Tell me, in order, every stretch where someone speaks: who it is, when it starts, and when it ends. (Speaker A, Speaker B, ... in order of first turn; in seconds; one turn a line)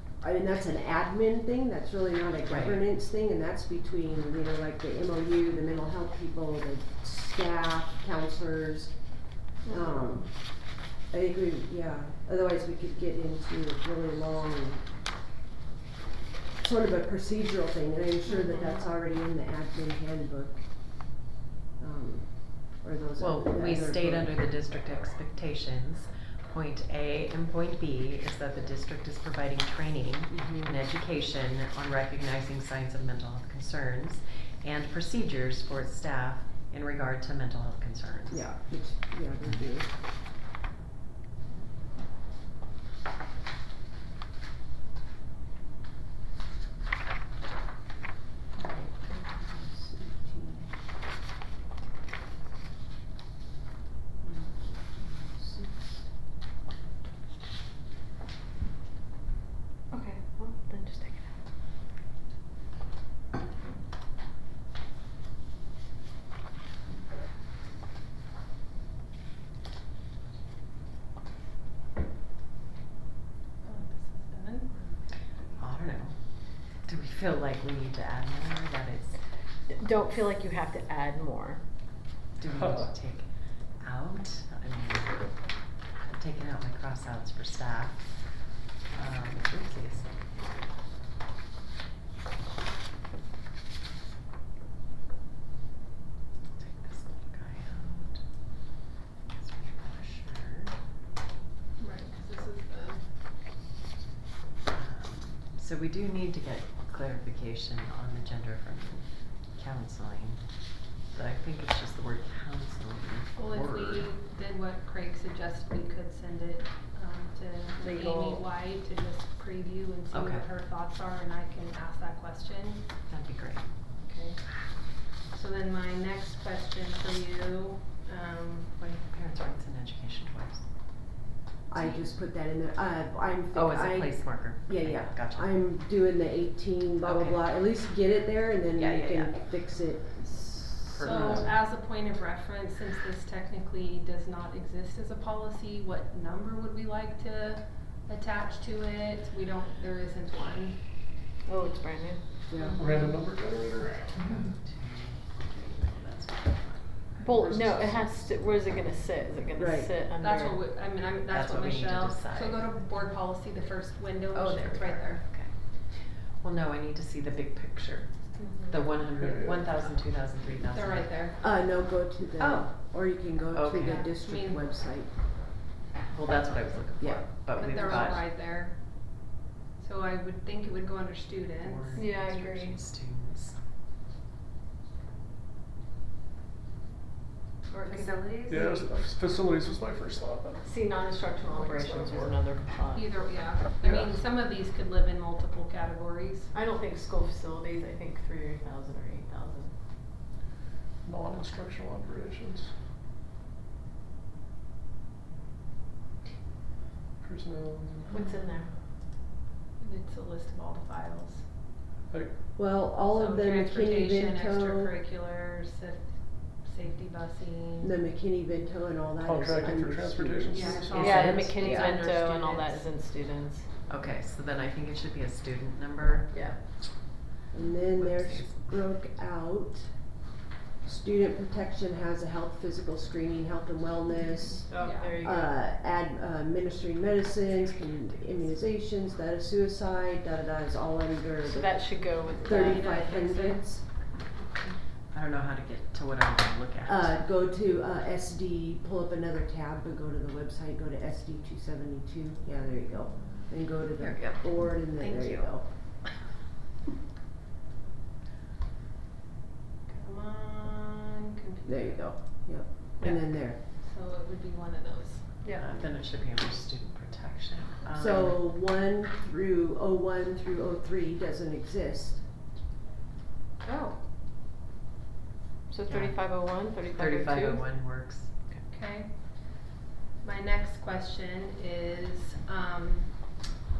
Speaker A: 0.2-9.0
Speaker B: 2.5-2.8
Speaker C: 9.6-10.2
Speaker A: 9.7-14.9
Speaker A: 16.6-20.7
Speaker C: 18.3-18.7
Speaker A: 21.8-24.3
Speaker B: 23.2-38.5
Speaker A: 30.3-30.7
Speaker A: 38.3-40.0
Speaker A: 48.6-50.7
Speaker A: 54.2-56.1
Speaker D: 59.9-61.3
Speaker C: 73.6-75.3
Speaker B: 75.5-79.2
Speaker D: 79.7-81.6
Speaker B: 82.4-85.5
Speaker E: 82.5-82.9
Speaker B: 86.1-88.2
Speaker B: 88.9-90.1
Speaker B: 96.6-98.2
Speaker B: 99.3-100.8
Speaker C: 101.8-103.1
Speaker B: 104.7-114.1
Speaker C: 113.4-122.9
Speaker D: 117.8-118.4
Speaker B: 120.1-120.5
Speaker B: 123.1-123.7
Speaker C: 124.0-128.7
Speaker B: 128.8-130.6
Speaker A: 131.7-141.5
Speaker C: 131.8-132.1
Speaker B: 133.5-135.6
Speaker B: 137.0-137.4
Speaker B: 138.7-139.4
Speaker B: 140.9-141.6
Speaker C: 141.0-151.0
Speaker D: 151.5-152.3
Speaker A: 152.5-152.9
Speaker C: 152.6-153.2
Speaker E: 152.8-154.5
Speaker B: 154.4-157.3
Speaker D: 157.2-160.6
Speaker E: 157.2-158.5
Speaker A: 159.6-159.9
Speaker C: 160.2-165.3
Speaker B: 161.3-162.6
Speaker B: 164.3-171.2
Speaker D: 168.4-168.8
Speaker E: 169.2-169.8
Speaker C: 170.4-171.4
Speaker A: 171.4-175.1
Speaker C: 172.4-172.7
Speaker B: 173.5-174.1
Speaker C: 173.8-174.8
Speaker B: 176.1-178.2
Speaker A: 177.0-178.1
Speaker C: 177.6-182.1
Speaker B: 181.6-183.6
Speaker D: 181.9-182.8
Speaker D: 187.7-188.5
Speaker C: 187.8-188.9
Speaker E: 188.5-190.8
Speaker D: 190.6-193.7
Speaker E: 191.5-192.4
Speaker C: 192.9-196.5
Speaker E: 193.8-194.2
Speaker D: 196.5-199.7
Speaker E: 201.0-202.8
Speaker E: 207.2-208.2
Speaker C: 208.1-208.4
Speaker D: 208.1-208.7
Speaker C: 209.8-211.5
Speaker E: 212.1-212.4
Speaker A: 212.6-214.9
Speaker C: 213.1-217.9
Speaker A: 217.8-221.9
Speaker E: 219.2-221.5
Speaker C: 220.5-222.9
Speaker D: 221.0-223.7
Speaker B: 221.0-221.9
Speaker B: 223.9-226.5
Speaker D: 226.3-226.6
Speaker A: 227.5-230.1
Speaker B: 228.0-228.6
Speaker A: 230.8-243.9
Speaker D: 234.7-235.6
Speaker C: 234.8-235.2
Speaker D: 241.4-242.9
Speaker C: 242.3-243.9
Speaker B: 245.1-247.2
Speaker A: 246.9-255.7
Speaker B: 254.0-255.6
Speaker C: 259.9-262.6
Speaker A: 261.7-263.6
Speaker C: 263.5-265.7
Speaker B: 265.6-268.4
Speaker A: 268.0-272.3
Speaker D: 275.7-277.6
Speaker B: 275.9-276.2
Speaker B: 276.9-278.4
Speaker C: 278.7-283.4